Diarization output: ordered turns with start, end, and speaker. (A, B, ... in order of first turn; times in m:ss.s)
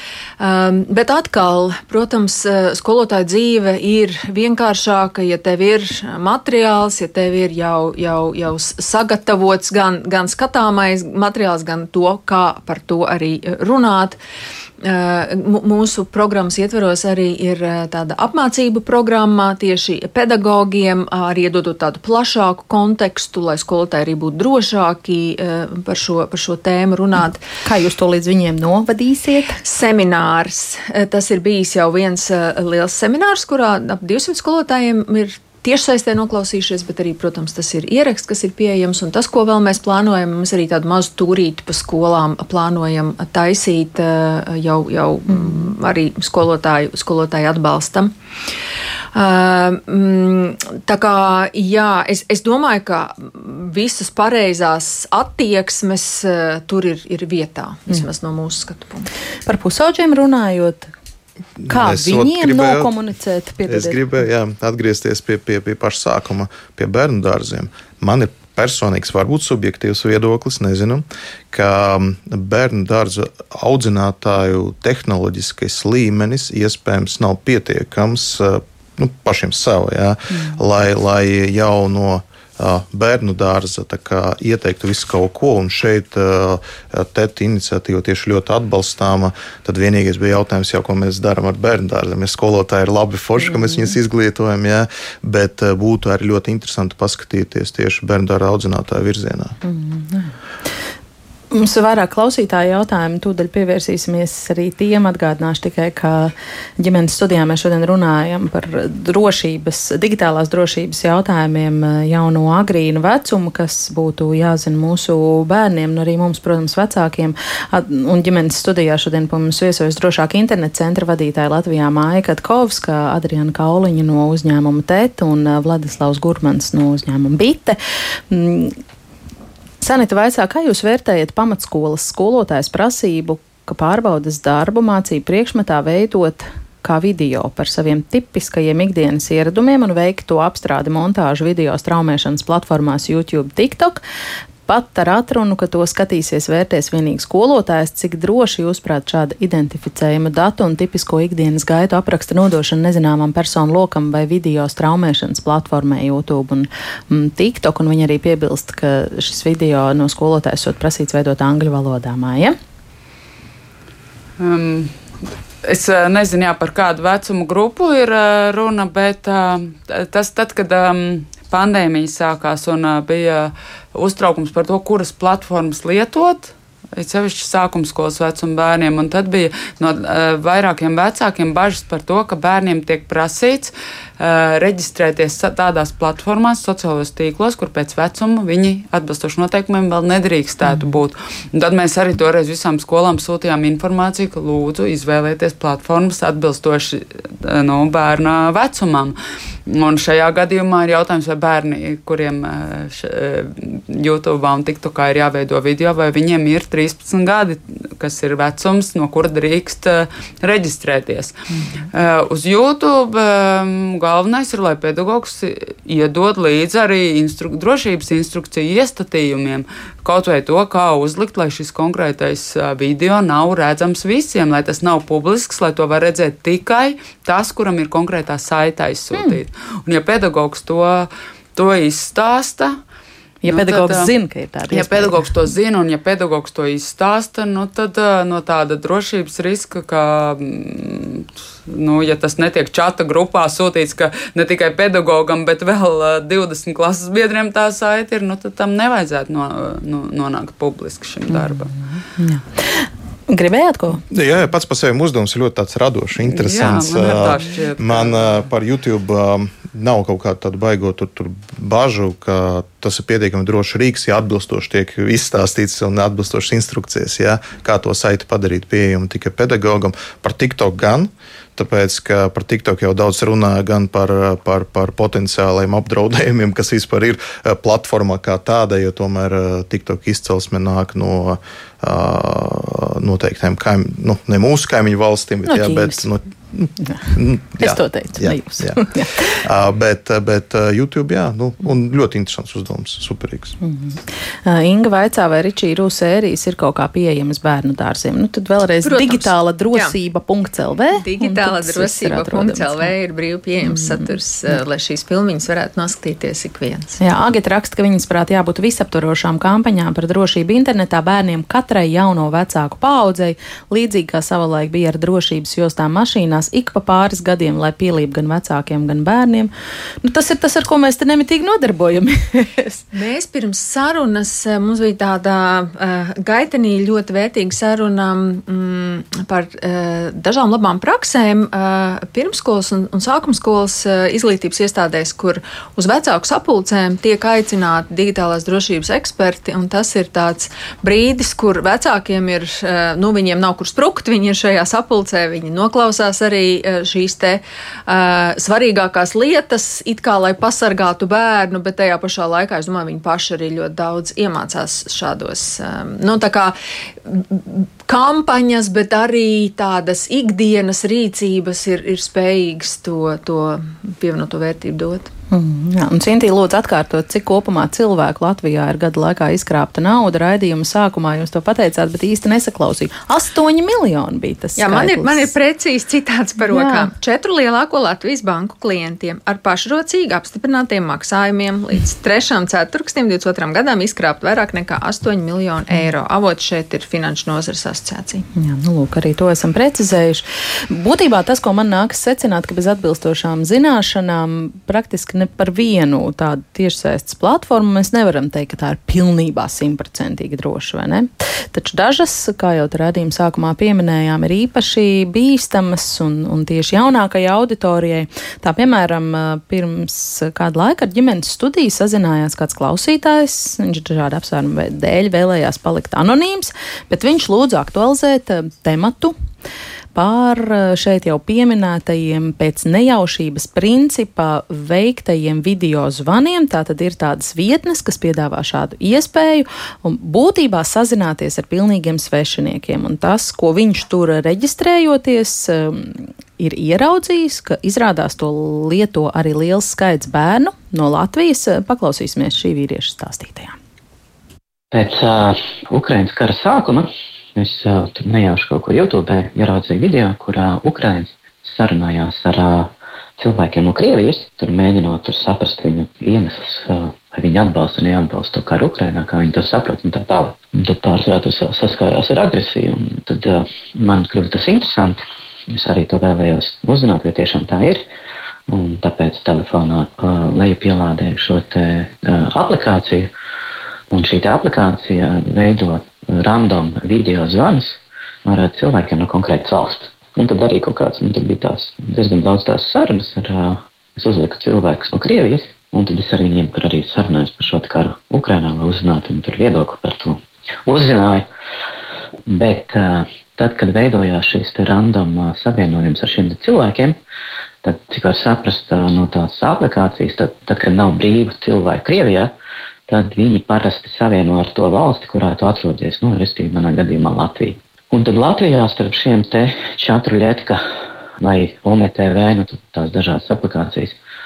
0:00.4-0:14.2 A
0:14.8-0:27.4 A
0:27.6-0:29.6 B
0:29.6-0:48.1 A
0:49.1-0:59.1 A
0:59.5-1:00.9 B
1:01.6-1:02.9 C
1:01.7-1:04.0 B
1:03.7-1:39.6 C
1:20.3-1:20.6 B
1:33.4-1:33.9 B
1:39.6-1:40.3 B
1:41.5-2:07.8 B
2:08.3-2:08.8 B
2:09.8-2:24.0 B
2:24.7-2:42.6 B
2:44.4-2:45.0 D
2:45.6-3:19.2 D
3:10.6-3:10.9 B
3:19.7-3:31.4 D
3:31.9-3:52.8 D
3:49.1-3:49.4 B
3:53.4-3:55.3 B
3:53.5-3:54.1 D
3:54.7-4:11.7 D
4:11.3-4:14.0 B
4:14.1-4:53.6 C
4:16.2-4:18.4 D
4:45.5-4:46.1 B
4:46.8-4:49.4 B
4:53.6-5:02.9 B
4:58.8-4:59.9 A
5:00.9-5:06.9 A
5:03.6-5:04.1 B
5:07.0-5:19.5 B
5:20.0-5:22.8 B
5:22.9-6:05.1 A
6:05.3-6:15.3 B
6:14.6-6:28.2 A
6:16.5-6:16.9 B
6:28.4-6:59.1 B
6:59.9-7:23.6 B
7:24.7-7:47.8 E
7:48.5-7:53.1 E
7:53.9-8:11.3 E
8:12.3-8:17.0 E
8:17.6-8:22.3 E
8:22.9-8:30.6 E
8:31.2-8:34.0 E